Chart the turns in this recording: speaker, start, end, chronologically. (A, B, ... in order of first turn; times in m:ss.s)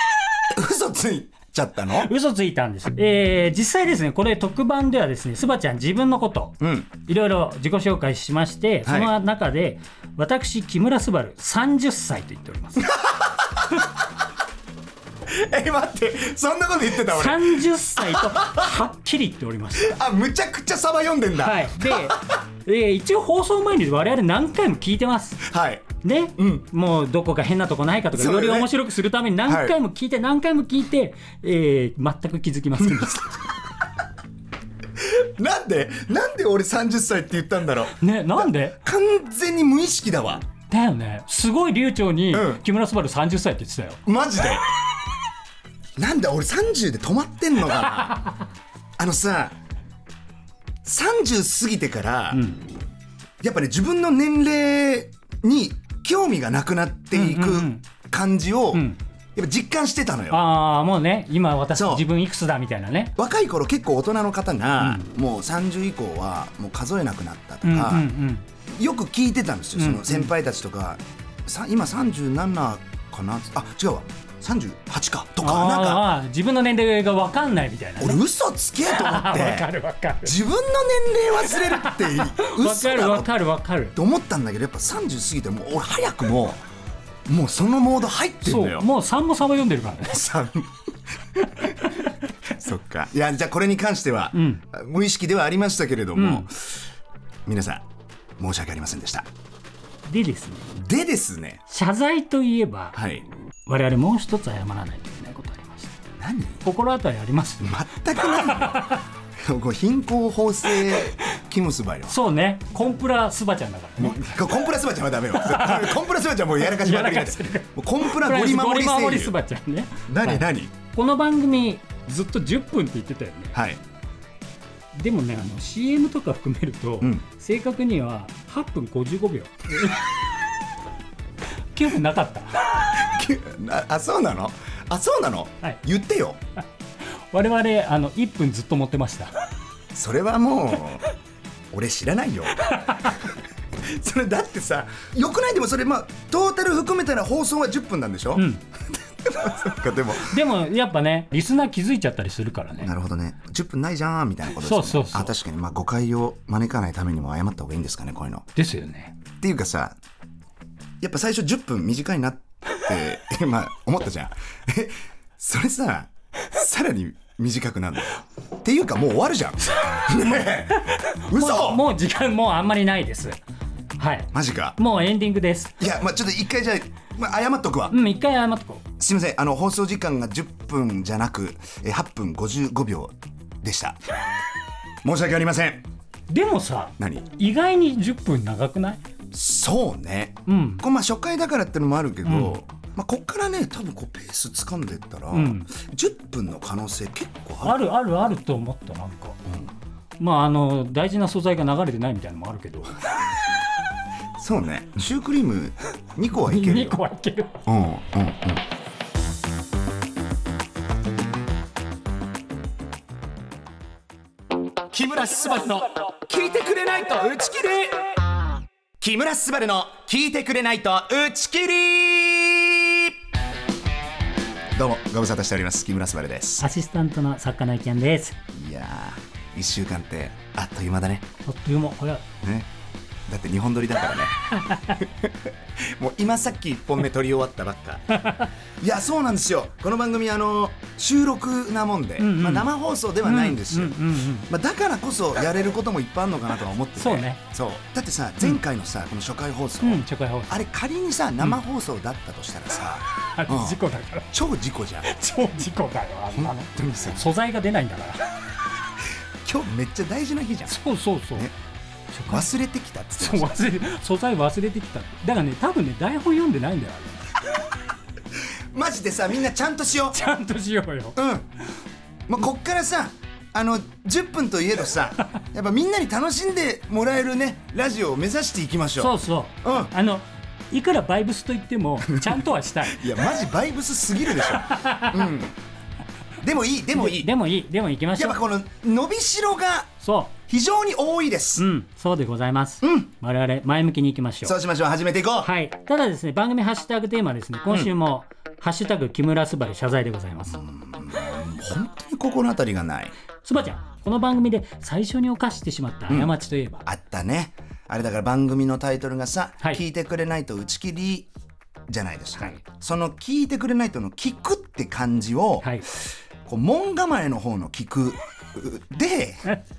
0:00.5-0:02.1 A
0:02.0-0:12.9 B
0:06.6-0:06.9 A
0:08.9-0:09.1 A
0:12.8-0:13.9 A
0:15.3-0:18.8 A
0:17.0-0:20.0 B
0:19.8-0:22.4 A
0:21.4-0:25.4 B
0:25.4-0:26.7 A
0:26.0-0:33.5 B
0:28.1-0:28.7 A
0:29.5-0:29.8 A
0:32.8-0:33.3 A
0:35.0-0:40.4 A
0:38.0-0:38.8 B
0:40.7-0:44.0 B
0:42.3-0:42.6 A
0:44.1-0:44.6 A
0:46.0-0:48.2 A
0:49.0-0:49.6 A
0:50.8-0:52.4 A
0:52.3-0:52.7 B
0:53.4-1:00.4 A
0:57.1-0:57.9 B
0:58.7-0:59.0 B
1:00.3-1:03.2 B
1:01.7-1:02.0 A
1:03.2-1:08.1 A
1:04.8-1:05.1 B
1:07.6-1:08.4 B
1:08.7-1:16.1 A
1:09.8-1:10.3 B
1:15.4-1:18.2 B
1:18.0-1:19.7 A
1:18.8-1:20.4 B
1:20.2-1:23.3 A
1:21.4-1:24.0 B
1:24.0-1:26.6 A
1:27.3-1:28.9 A
1:28.4-1:30.3 B
1:30.0-1:30.8 A
1:31.4-1:32.0 A
1:32.5-1:36.9 A
1:34.3-1:34.6 B
1:36.2-1:36.5 B
1:37.5-1:37.8 A
1:38.4-1:39.3 A
1:40.1-1:40.7 B
1:40.7-1:41.6 A
1:41.7-1:43.0 B
1:43.0-1:43.2 A
1:43.7-1:46.0 B
1:46.2-1:46.6 A
1:46.6-1:47.8 B
1:47.6-1:52.2 A
1:48.4-1:49.0 B
1:52.1-1:54.5 B
1:54.0-1:59.4 A
1:55.3-1:56.0 B
1:56.6-2:03.6 B
2:00.1-2:00.7 A
2:03.6-2:03.8 A
2:04.9-2:10.0 B
2:11.8-2:12.7 B
2:12.8-2:16.4 A
2:17.3-2:19.3 B
2:19.9-2:21.0 A
2:21.7-2:28.5 A
2:22.7-2:23.1 B
2:28.4-2:28.6 B
2:29.2-2:30.4 A
2:30.2-2:32.9 B
2:32.8-2:38.5 A
2:34.6-2:35.3 B
2:38.6-2:39.2 B
2:39.4-2:40.0 A
2:41.0-2:51.9 A
2:49.8-2:53.4 B
2:54.0-2:55.8 B
2:54.3-2:54.8 A
2:55.8-2:58.0 A
2:57.9-2:58.8 B
2:59.0-3:04.0 A
3:05.0-3:05.8 A
3:06.3-3:09.0 B
3:07.0-3:07.3 A
3:09.3-3:17.8 A
3:10.5-3:10.8 B
3:12.2-3:12.6 B
3:15.3-3:15.7 B
3:17.6-3:19.4 B
3:20.2-3:23.1 B
3:24.4-3:27.0 A
3:26.4-3:27.6 B
3:27.7-3:28.6 A
3:34.9-3:38.1 A
3:39.0-3:43.1 A
3:44.8-3:46.7 A
3:46.6-3:48.4 B
3:48.5-3:51.2 A
3:51.4-3:52.2 B
3:52.4-3:52.7 A
3:53.3-3:58.1 A
3:54.5-3:55.0 B
3:58.1-3:58.5 B
3:58.8-4:13.8 A
4:02.2-4:02.7 B
4:03.2-4:04.5 B
4:07.0-4:07.4 B
4:09.8-4:10.6 B
4:13.2-4:14.3 B
4:14.3-4:15.1 A
4:15.0-4:18.2 B
4:16.3-4:17.2 A
4:19.4-4:20.8 A
4:20.7-4:21.5 B
4:22.1-4:22.5 B
4:22.3-4:23.6 A
4:23.2-4:27.3 B
4:28.7-4:30.2 A
4:30.1-4:31.2 B
4:31.2-4:31.5 A
4:32.3-4:39.9 A
4:39.0-4:43.1 B
4:42.0-4:45.6 A
4:44.5-4:45.3 B
4:46.4-4:47.3 A
4:47.0-4:48.4 B
4:48.2-4:49.9 A
4:50.0-4:50.3 B
4:50.5-4:51.7 A
4:51.6-4:54.6 B
4:52.8-4:53.1 A
4:54.4-4:55.5 A
4:55.4-5:00.6 B
5:00.6-5:03.1 A
5:03.4-5:06.8 B
5:06.1-5:06.3 A
5:06.9-5:11.3 A
5:11.9-5:19.4 A